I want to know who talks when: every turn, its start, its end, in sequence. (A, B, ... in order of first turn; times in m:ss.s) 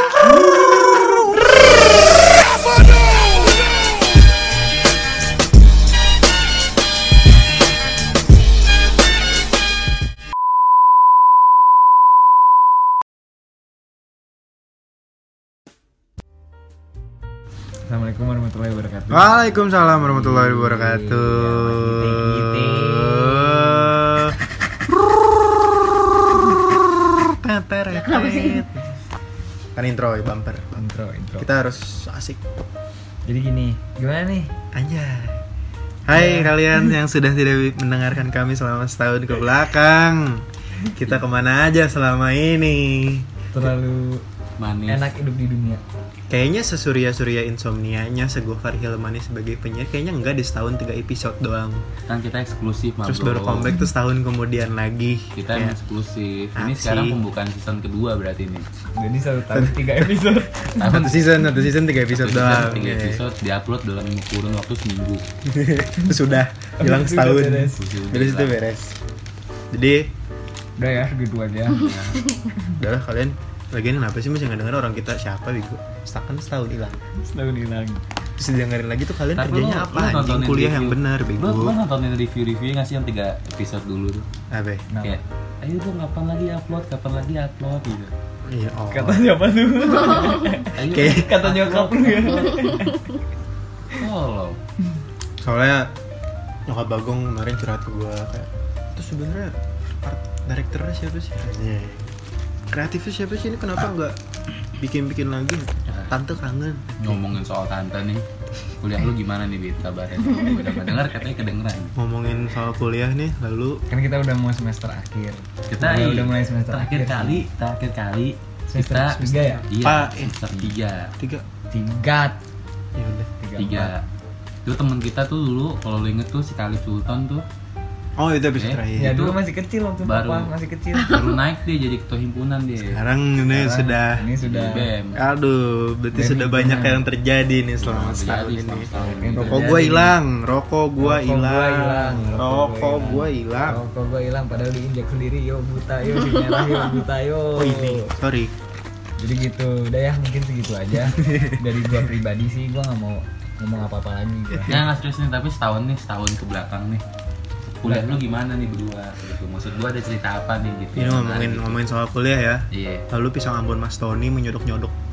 0:17.9-0:24.0 A
0:19.1-0:24.4 B
0:26.6-0:28.8 B
0:29.7-0:30.8 B
0:30.8-0:31.5 A
0:31.4-0:32.4 B
0:33.2-0:34.5 A
0:34.7-0:35.4 B
0:36.1-0:43.7 B
0:36.1-0:36.6 A
0:43.5-0:44.2 A
0:44.6-0:45.1 C
0:44.9-0:45.8 A
0:46.3-0:51.8 B
0:52.1-0:53.7 C
0:53.0-0:55.8 B
0:55.4-0:58.6 C
0:56.6-0:57.2 B
0:59.0-1:00.8 A
0:59.5-1:00.1 B
1:00.8-1:01.4 C
1:00.8-1:03.2 B
1:02.1-1:05.2 C
1:05.4-1:09.0 B
1:06.8-1:07.8 A
1:07.8-1:08.6 C
1:09.7-1:10.1 B
1:10.8-1:11.9 A
1:11.7-1:12.3 C
1:12.8-1:17.0 B
1:17.2-1:18.0 A
1:18.4-1:21.8 B
1:19.4-1:24.2 C
1:24.5-1:24.9 B
1:24.9-1:25.2 A
1:25.0-1:28.1 C
1:28.4-1:29.3 B
1:28.9-1:33.1 A
1:30.6-1:32.6 C
1:30.8-1:31.4 B
1:33.9-1:34.6 C
1:35.4-1:35.9 B
1:36.7-1:42.1 B
1:42.7-1:44.2 B
1:44.8-1:47.2 B
1:45.9-1:46.1 C
1:47.0-1:48.2 C
1:48.8-1:51.9 C
1:52.0-1:53.8 B
1:53.9-1:57.4 A
1:55.7-2:01.1 C
1:58.7-1:59.6 A
1:59.2-2:00.3 B
2:01.2-2:01.4 B
2:01.7-2:02.4 A
2:03.0-2:03.3 B
2:03.4-2:03.9 A
2:03.6-2:04.0 C
2:04.6-2:07.4 C
2:08.2-2:09.2 B
2:08.6-2:09.4 C
2:09.0-2:11.3 A
2:10.0-2:13.0 C
2:12.8-2:14.3 B
2:13.5-2:14.9 A
2:14.4-2:15.2 C
2:15.1-2:23.8 B
2:16.1-2:17.0 A
2:17.8-2:19.8 C
2:19.0-2:20.1 A
2:21.0-2:28.1 A
2:27.5-2:28.5 B
2:29.2-2:34.8 A
2:31.2-2:31.6 B
2:34.7-2:37.0 C
2:37.8-2:41.8 C
2:37.8-2:38.2 A
2:40.9-2:45.0 B
2:42.7-2:43.0 C